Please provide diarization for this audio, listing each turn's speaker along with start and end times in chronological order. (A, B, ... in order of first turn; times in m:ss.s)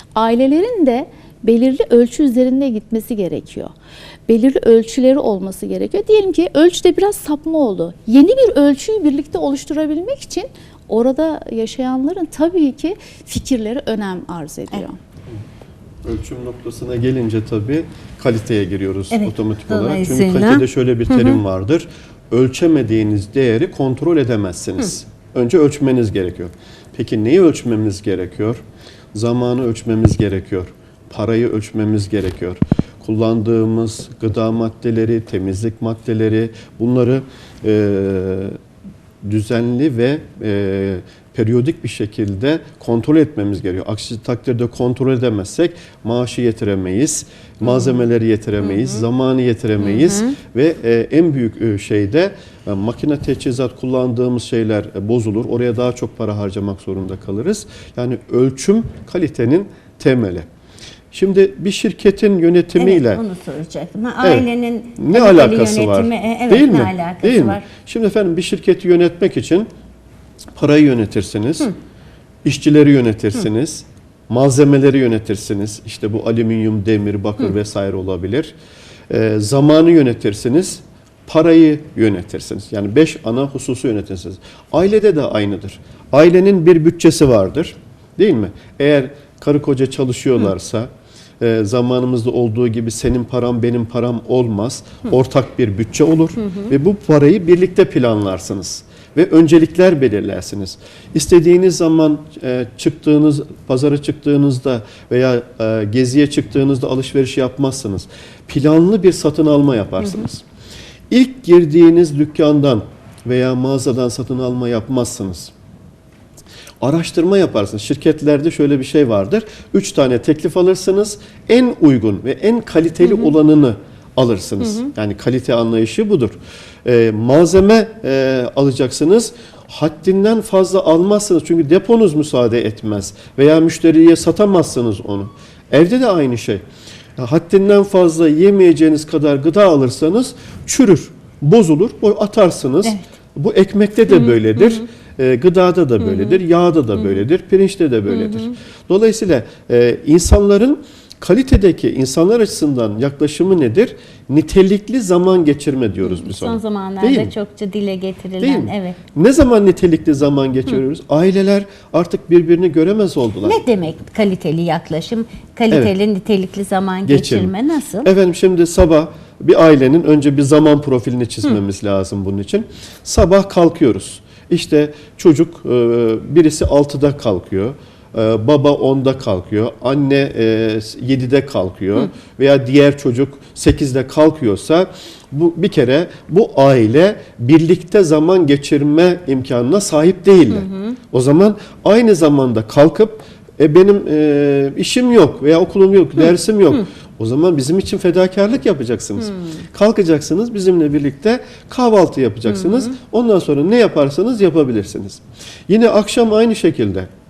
0:00.1-0:03.7 A
0:04.3-0:15.0 A
0:16.0-0:28.6 B
0:19.1-0:21.4 C
0:29.1-0:38.6 B
0:39.2-1:00.4 B
0:49.8-0:50.3 C
1:01.1-1:03.2 B
1:02.8-1:07.6 C
1:05.0-1:09.7 B
1:10.5-1:11.7 B
1:12.4-1:18.5 B
1:19.1-1:50.4 B
1:51.1-1:55.5 B
1:56.8-2:16.6 B
2:17.2-2:37.3 B
2:36.0-2:39.0 C
2:38.4-2:43.6 B
2:43.4-2:48.1 C
2:47.1-2:47.5 B
2:48.0-3:27.1 B
3:10.6-3:10.9 C